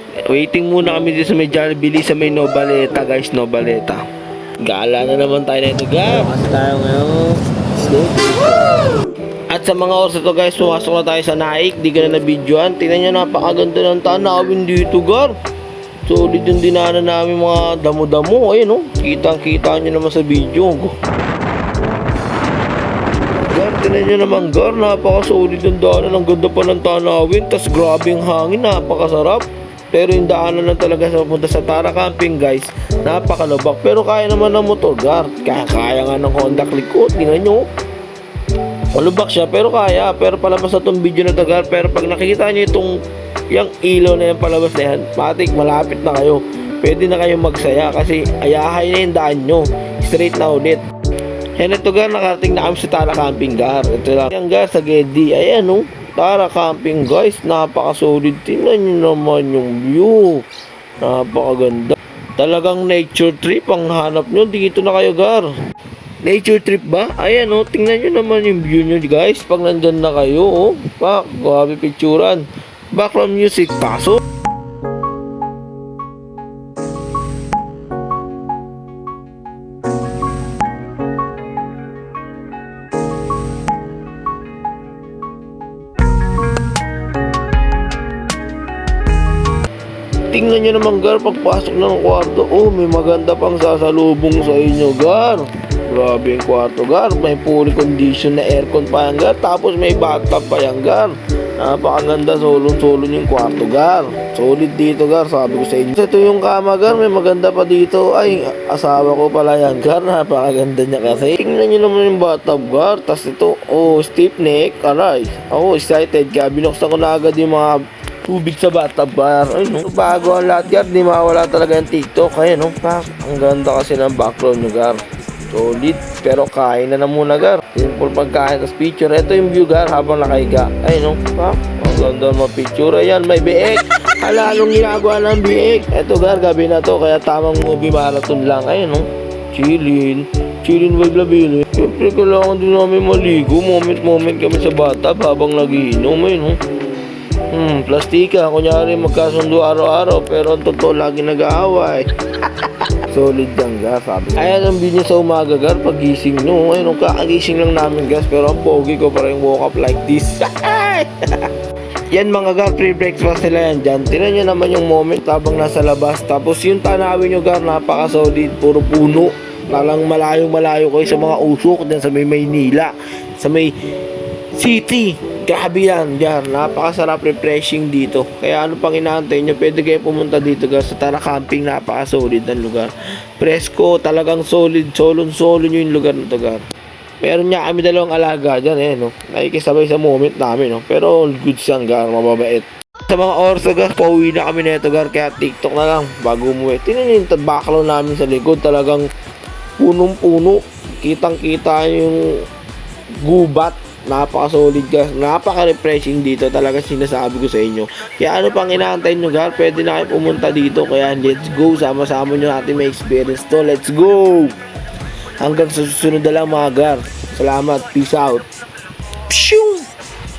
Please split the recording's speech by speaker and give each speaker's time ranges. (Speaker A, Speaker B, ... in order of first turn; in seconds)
Speaker A: 0.3-4.0, 4.6-15.4, 16.1-20.9, 23.5-37.6, 38.9-50.8, 51.6-60.5, 61.0-65.5, 66.2-74.2, 90.3-146.6, 147.5-161.5, 162.1-173.8, 174.5-186.6, 187.2-199.1, 199.8-202.5, 203.2-214.6, 215.4-218.5, 219.2-219.9